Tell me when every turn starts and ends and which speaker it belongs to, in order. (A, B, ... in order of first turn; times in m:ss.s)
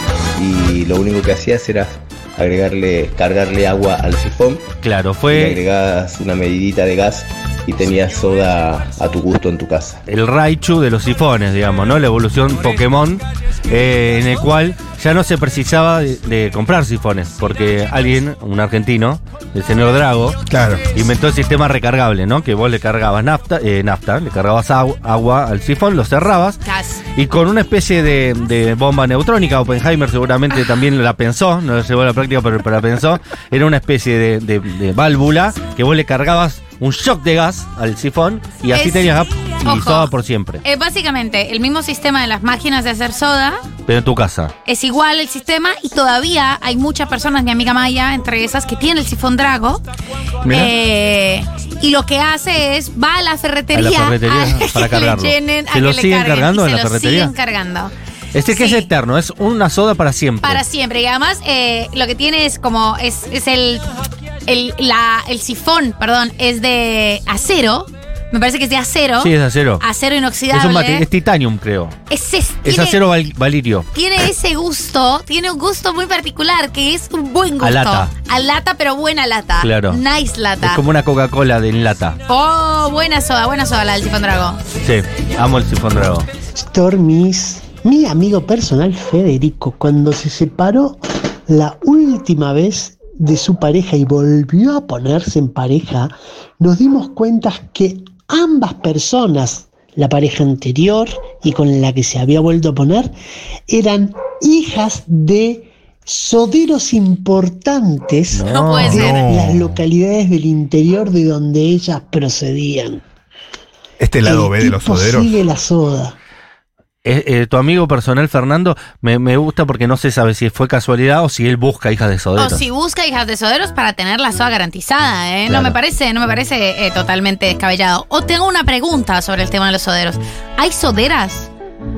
0:00.4-0:04.7 A
0:04.8-0:05.6 B
0:05.3-0:10.0 A
0:10.1-0:26.6 B
0:20.5-0:20.8 C
0:26.6-0:27.0 D
0:27.1-0:40.6 B
0:38.7-0:40.1 D
0:40.6-0:43.6 D
0:43.9-0:44.5 B
0:44.6-0:49.8 D
0:50.5-0:57.9 D
0:53.7-0:57.3 B
0:58.3-1:00.6 B
0:58.5-0:58.9 D
1:00.4-1:03.9 D
1:04.5-1:11.1 D
1:09.2-1:09.8 B
1:10.5-1:12.0 B
1:12.1-1:13.0 D
1:12.6-1:13.9 B
1:13.9-1:20.8 D
1:17.6-1:18.1 B
1:19.6-1:20.0 B
1:20.6-1:22.2 B
1:22.3-1:24.6 D
1:24.8-1:26.3 B
1:26.6-1:43.2 E
1:43.7-1:53.0 E
1:48.3-1:49.1 B
1:48.5-1:49.2 D
1:49.0-1:49.8 C
1:54.0-1:55.3 C
1:54.2-1:56.2 E
1:57.0-2:02.6 B
2:02.4-2:11.5 D
2:05.5-2:05.8 B